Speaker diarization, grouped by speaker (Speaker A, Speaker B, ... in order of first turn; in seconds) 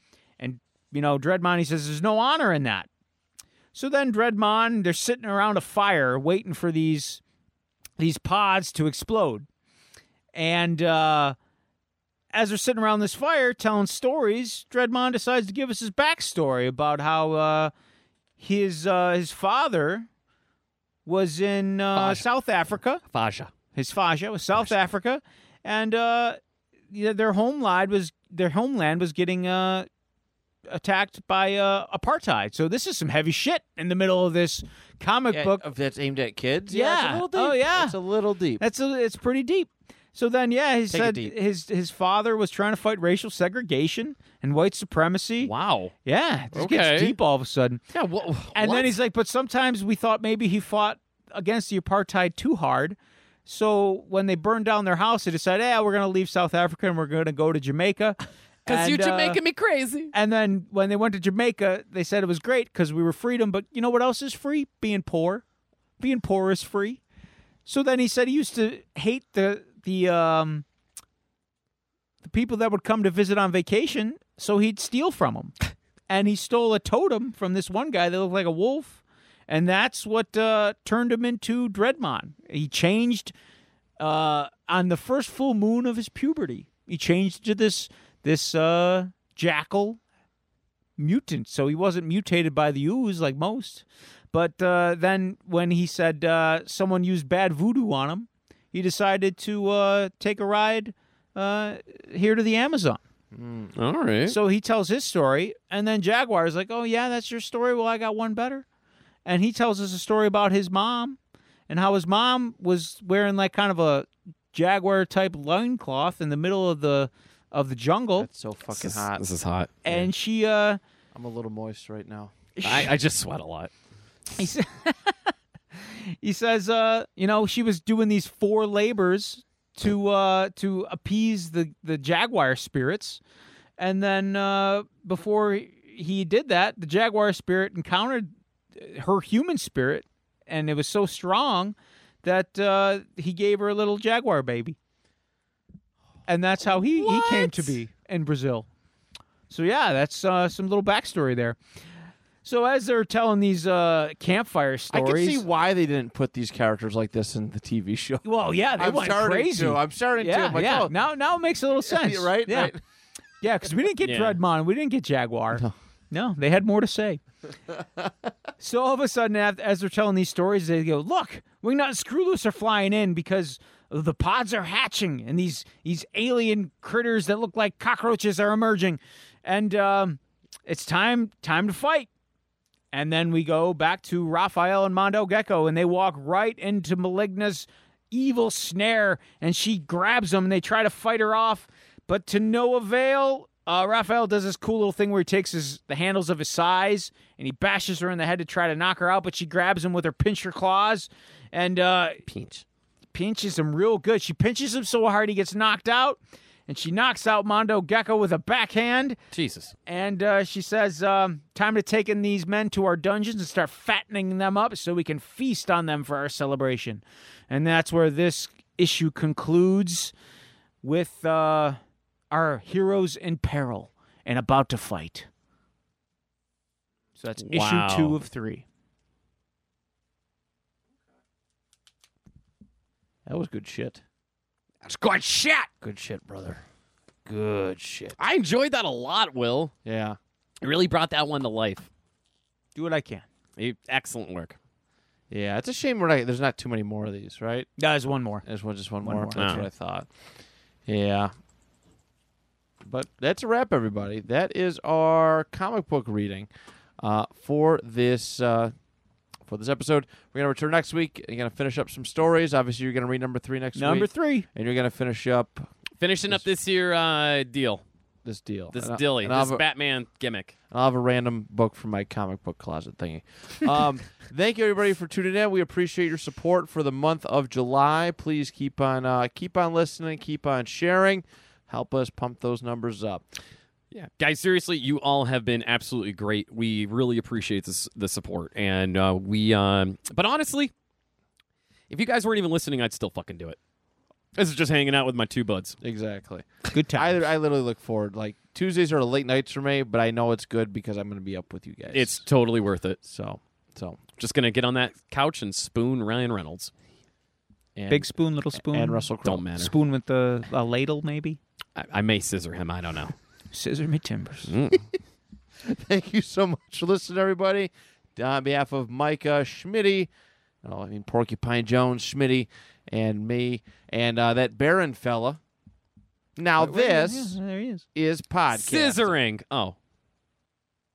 Speaker A: 0.4-2.9, 3.7-7.2, 8.0-9.5, 10.3-11.4, 12.3-17.7, 18.4-20.1, 21.1-23.0, 23.7-26.4, 26.9-29.9, 30.7-35.6, 36.7-38.0, 38.6-45.5, 46.0-47.8, 48.5-59.4, 60.1-65.4, 66.0-67.0, 67.7-70.7, 72.2-75.5, 76.1-83.3, 84.0-90.0, 91.0-103.0, 104.3-108.7, 109.2-111.2, 111.7-118.3, 119.8-120.8, 122.6-122.9, 124.4-125.2, 125.8-133.2, 133.8-144.8, 146.3-148.7, 149.5-151.6, 152.4-155.4, 158.2-162.7, 163.4-167.2, 168.6-182.1, 182.9-202.2, 203.1-209.2, 209.9-220.1, 220.8-221.8, 222.3-225.3, 227.2-228.7, 242.8-243.3, 247.8-248.4, 249.0-249.7, 263.8-264.5, 296.7-297.2, 307.9-311.4, 313.5-314.5, 326.6-327.9
Speaker B: 21.9-22.2, 23.1-23.5, 45.4-45.9, 46.5-47.2, 47.9-49.0, 58.7-60.1, 103.8-104.4, 118.8-119.7, 122.6-123.7, 146.7-147.8, 164.0-164.4, 202.3-202.6, 209.3-209.7, 227.5-228.2, 234.8-235.8, 238.2-239.7, 240.6-241.9, 243.6-244.6, 249.4-249.6, 266.0-267.8, 268.7-270.5, 283.9-290.7, 291.9-293.6, 294.4-295.8, 301.9-303.0, 304.2-306.7, 309.2-309.7, 311.8-313.1, 314.5-314.8, 328.5-329.8
Speaker C: 35.3-38.6, 40.9-41.3, 103.3-103.7, 118.2-119.2, 121.2-122.4, 154.9-158.2, 158.8-160.9, 161.9-162.8, 167.7-168.1, 233.3-234.0, 235.8-236.6, 237.3-238.2, 239.8-240.2, 245.3-247.7, 248.4-250.1, 250.9-251.3, 252.8-256.5, 257.0-258.7, 259.5-265.7, 268.2-269.6, 270.7-283.3, 295.8-302.2, 303.0-304.0, 307.8-309.5, 315.6-320.1, 320.6-325.4, 326.4-327.4, 327.9-329.1